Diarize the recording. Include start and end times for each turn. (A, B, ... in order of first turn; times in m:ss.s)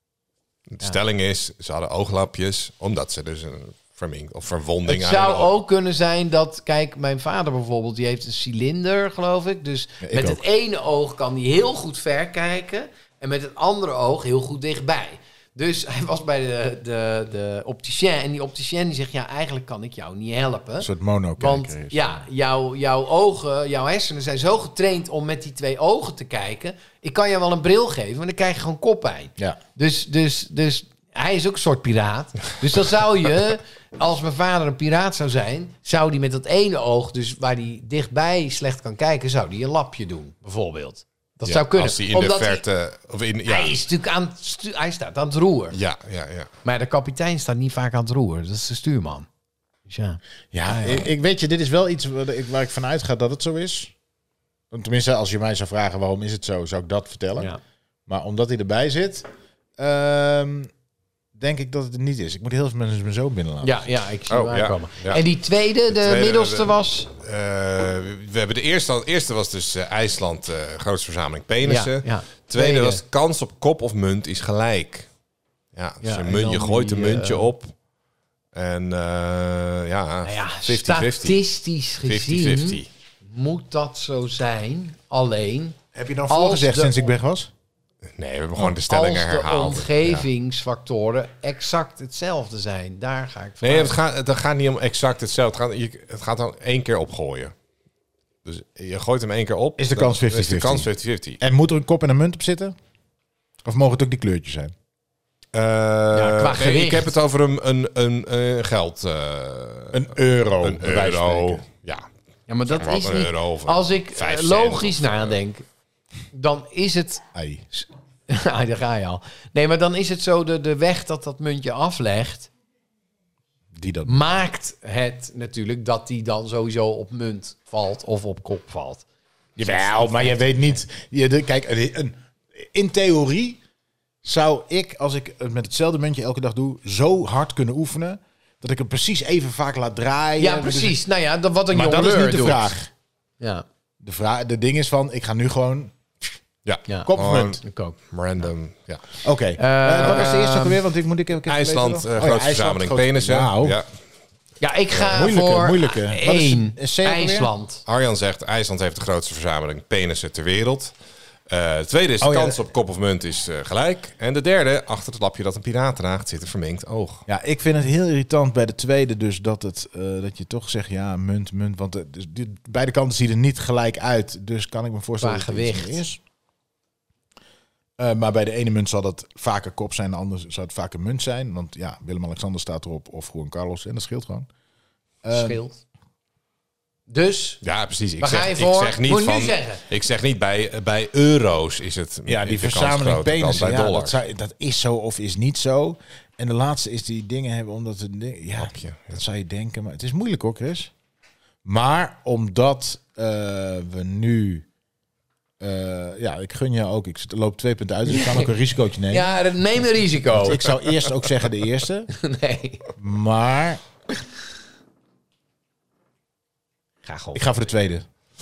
0:00.7-0:05.5 A
0:04.8-0:42.6 B
0:10.0-0:10.4 C
0:20.8-0:22.2 C
0:41.4-0:43.7 A
0:43.4-0:45.8 B
0:45.7-0:46.5 A
0:46.6-0:49.3 B
0:49.9-0:51.1 B
0:50.5-0:53.9 C
0:54.7-0:57.5 C
0:58.1-0:59.2 C
0:59.8-1:00.7 C
1:01.4-1:03.8 C
1:03.6-1:07.1 B
1:04.3-1:05.2 A
1:05.9-1:15.1 A
1:11.6-1:13.0 B
1:15.7-1:17.7 A
1:16.0-1:17.5 B
1:18.5-1:21.4 A
1:20.2-1:25.8 B
1:22.0-1:22.9 A
1:25.9-1:27.5 C
1:26.3-1:26.9 B
1:28.2-1:30.2 A
1:28.9-1:33.9 B
1:33.6-1:37.5 A
1:38.4-1:41.4 A
1:39.8-1:40.9 C
1:41.4-1:42.7 C
1:43.6-1:44.7 C
1:45.5-1:50.0 A
1:46.1-1:47.1 B
1:49.9-1:51.6 C
1:50.6-1:52.1 A
1:52.5-1:55.6 B
1:52.7-1:55.3 A
1:56.3-2:02.5 B
1:57.3-1:57.6 C
2:03.7-2:04.2 C
2:04.0-2:09.0 B
2:09.6-2:13.6 C
2:10.0-2:10.4 B
2:14.2-2:21.0 C
2:20.4-2:22.7 B
2:21.7-2:22.9 C
2:23.4-2:23.6 B
2:24.0-2:25.9 C
2:26.6-2:29.0 A
2:26.9-2:28.0 B
2:27.1-2:27.6 C
2:29.2-2:33.8 C
2:29.6-2:30.8 B
2:31.5-2:33.9 A
2:34.6-2:37.8 B
2:34.9-2:35.3 A
2:35.1-2:37.5 C
2:37.8-2:40.9 A
2:41.5-2:47.2 A
2:42.2-2:42.6 C
2:47.3-2:56.2 C
2:55.2-2:56.0 B
2:58.0-3:04.5 C
3:05.2-3:05.6 C
3:05.3-3:05.8 B
3:07.1-3:07.6 B
3:07.6-3:14.2 A
3:08.2-3:09.8 B
3:12.3-3:20.9 C
3:18.6-3:19.2 A
3:21.6-3:24.6 C
3:25.6-3:29.3 C
3:28.0-3:28.5 B
3:29.1-3:30.7 B
3:30.3-3:32.1 C
3:32.1-3:32.8 B
3:33.0-3:33.8 C
3:37.0-3:37.4 B
3:37.3-3:38.0 C